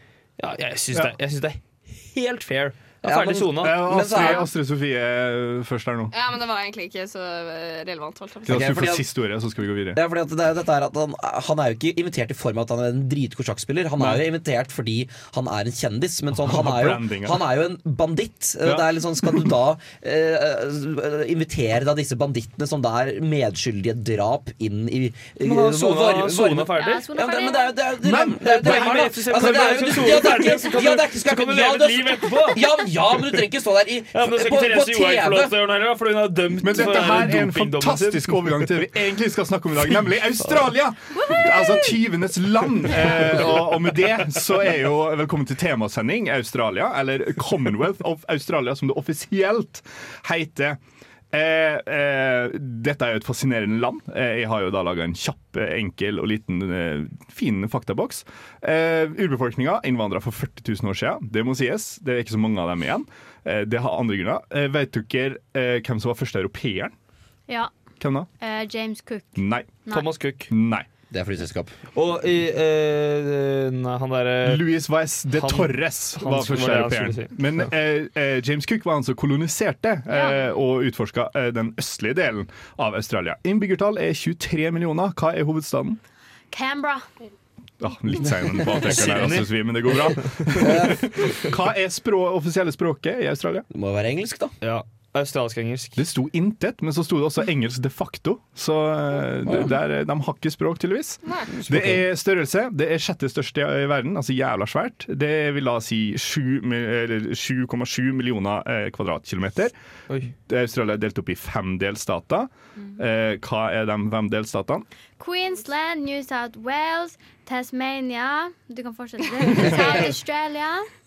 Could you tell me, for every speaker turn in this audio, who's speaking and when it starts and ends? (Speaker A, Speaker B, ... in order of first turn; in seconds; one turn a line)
Speaker A: 0.4-3.9
Speaker B: 3.0-4.5
Speaker C: 3.6-6.1
Speaker D: 6.1-8.6
Speaker B: 8.4-9.1
Speaker C: 8.4-10.0
Speaker B: 9.9-35.5
Speaker C: 14.0-14.2
Speaker C: 16.4-17.4
Speaker C: 18.6-19.4
Speaker A: 25.4-27.0
Speaker E: 26.8-27.8
Speaker C: 28.0-30.2
Speaker A: 28.4-33.0
Speaker A: 34.1-38.8
Speaker C: 36.6-50.8
Speaker E: 41.1-41.9
Speaker C: 51.3-66.9
Speaker C: 68.0-68.3
Speaker E: 68.4-70.0
Speaker C: 69.4-69.8
Speaker A: 69.9-70.5
Speaker C: 70.5-70.9
Speaker B: 71.1-71.7
Speaker A: 71.9-74.7
Speaker C: 74.4-86.0
Speaker A: 75.3-77.7
Speaker E: 80.1-80.5
Speaker E: 86.5-87.0
Speaker C: 87.8-93.7
Speaker A: 88.8-90.7
Speaker B: 90.6-91.3
Speaker B: 93.7-94.5
Speaker A: 94.6-96.0
Speaker C: 96.0-109.7
Speaker B: 99.5-99.7
Speaker D: 101.2-101.5
Speaker C: 110.5-114.8
Speaker E: 115.2-120.9
Speaker D: 119.5-119.9